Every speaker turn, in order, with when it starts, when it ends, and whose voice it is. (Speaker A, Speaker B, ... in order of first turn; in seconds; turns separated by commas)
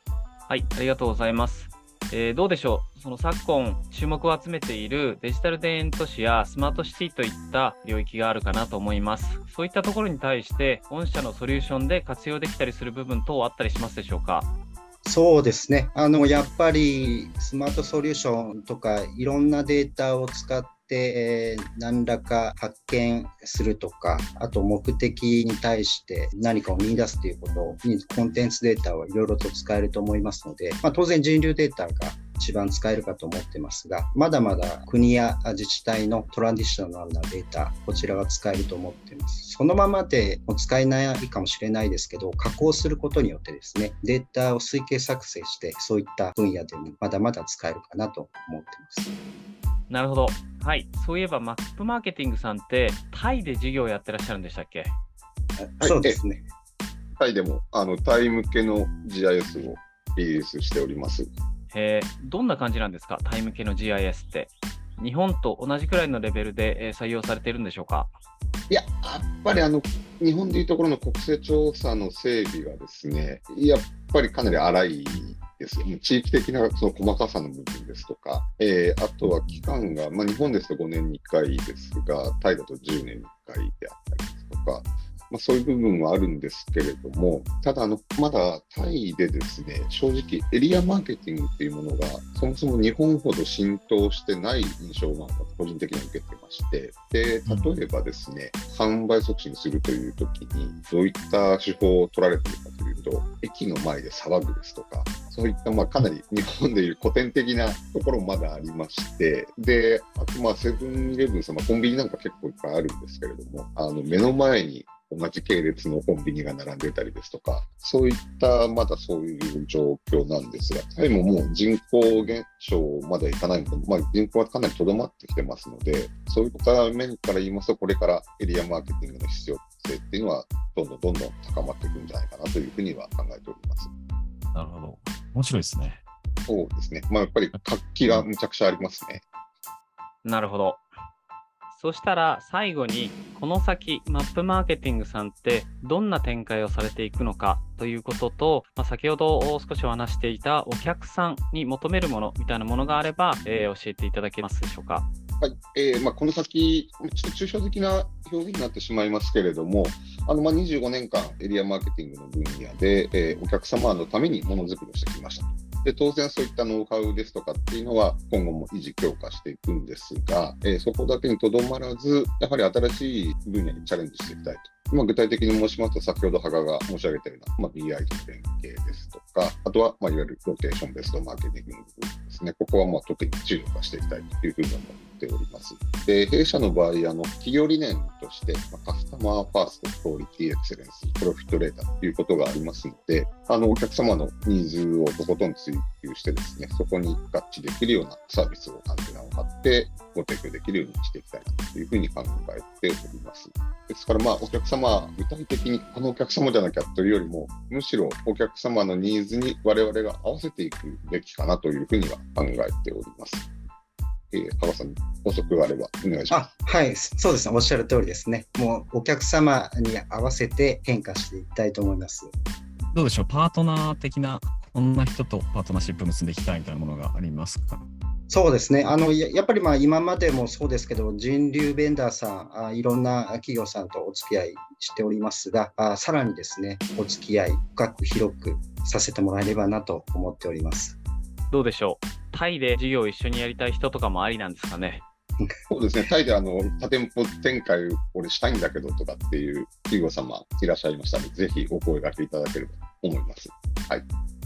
Speaker A: 0.5-14.5, Speaker B: 15.0-49.1, Speaker A: 49.9-54.9, Speaker B: 55.6-56.5, Speaker C: 55.8-56.2, Speaker C: 57.2-61.3, Speaker A: 61.7-68.1, Speaker C: 68.7-133.9, Speaker D: 97.5-97.7, Speaker D: 134.5-136.0, Speaker C: 136.5-139.2, Speaker A: 140.2-140.8, Speaker A: 141.7-155.0, Speaker C: 155.4-213.4, Speaker C: 214.3-216.4, Speaker B: 216.3-222.3, Speaker D: 222.9-227.8, Speaker B: 228.3-241.0, Speaker A: 241.5-245.0, Speaker C: 245.7-254.0